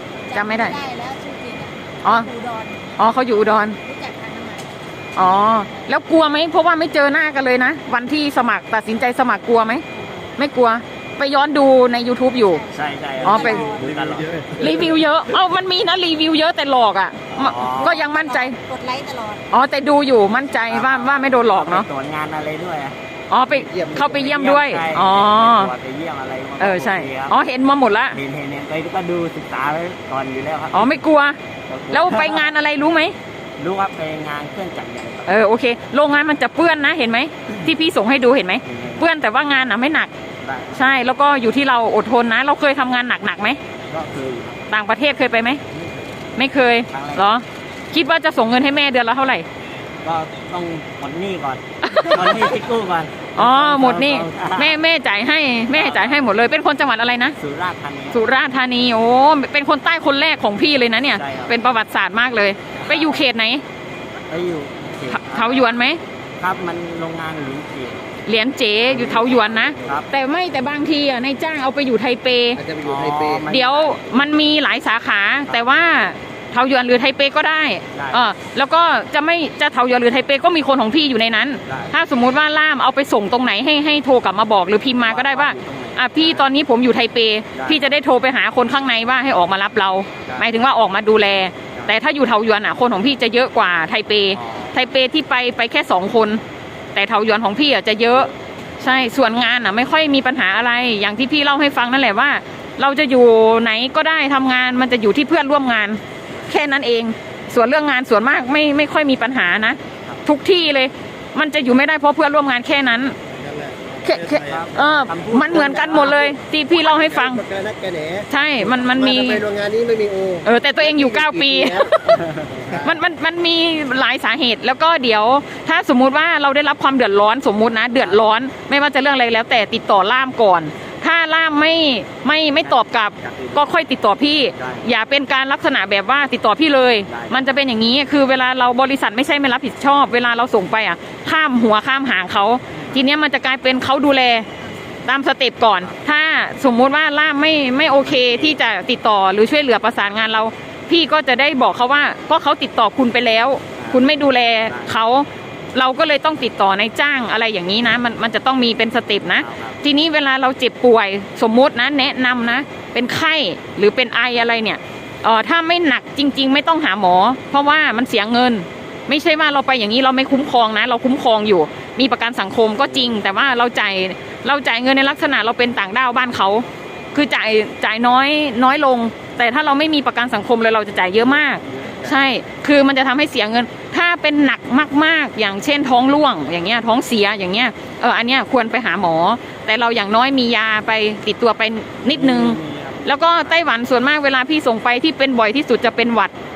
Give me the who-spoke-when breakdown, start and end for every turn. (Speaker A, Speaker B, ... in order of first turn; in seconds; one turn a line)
Speaker A: 0.2-5.9
Speaker B: 0.3-0.8
Speaker B: 2.0-2.3
Speaker B: 3.0-3.8
Speaker B: 5.2-9.8
Speaker A: 9.9-10.3
Speaker B: 10.4-12.6
Speaker A: 12.4-14.0
Speaker C: 12.7-14.7
Speaker B: 13.2-13.7
Speaker D: 14.1-14.9
Speaker B: 14.5-18.6
Speaker C: 17.3-18.1
Speaker A: 17.7-19.4
Speaker B: 19.5-21.9
Speaker C: 20.5-22.9
Speaker B: 23.3-25.7
Speaker C: 23.5-27.4
Speaker D: 23.6-24.1
Speaker B: 26.6-28.2
Speaker C: 28.1-31.0
Speaker B: 30.7-31.4
Speaker C: 31.7-32.5
Speaker B: 31.9-33.1
Speaker C: 33.6-35.3
Speaker B: 35.2-40.1
Speaker C: 38.6-39.1
Speaker C: 40.4-40.9
Speaker B: 40.7-43.6
Speaker C: 43.8-44.6
Speaker B: 44.7-45.6
Speaker B: 46.4-49.5
Speaker C: 46.9-47.3
Speaker C: 50.0-54.8
Speaker B: 51.8-52.5
Speaker B: 53.3-57.4
Speaker C: 55.7-56.3
Speaker C: 57.4-58.2
Speaker B: 58.1-63.6
Speaker C: 61.1-61.6
Speaker C: 62.7-63.2
Speaker C: 64.3-65.8
Speaker B: 65.1-66.0
Speaker C: 66.4-68.0
Speaker B: 68.2-72.6
Speaker C: 68.9-70.1
Speaker D: 69.4-70.0
Speaker D: 72.5-73.4
Speaker C: 72.8-74.2
Speaker B: 73.5-96.4
Speaker C: 77.9-78.3
Speaker C: 81.7-81.9
Speaker C: 85.0-86.5
Speaker C: 87.5-87.9
Speaker C: 94.3-94.8
Speaker B: 96.9-113.2
Speaker D: 113.3-114.6
Speaker B: 114.0-117.4
Speaker C: 114.4-116.3
Speaker D: 115.5-122.0
Speaker B: 118.3-119.4
Speaker B: 120.4-144.5
Speaker C: 122.3-122.8
Speaker C: 128.0-128.2
Speaker C: 132.6-133.7
Speaker C: 134.5-134.9
Speaker C: 137.1-137.5
Speaker C: 142.7-143.1
Speaker B: 145.1-196.3
Speaker C: 148.0-148.6
Speaker C: 153.8-155.0
Speaker C: 159.3-159.8
Speaker C: 172.9-173.2
Speaker C: 181.6-182.1
Speaker C: 192.1-193.7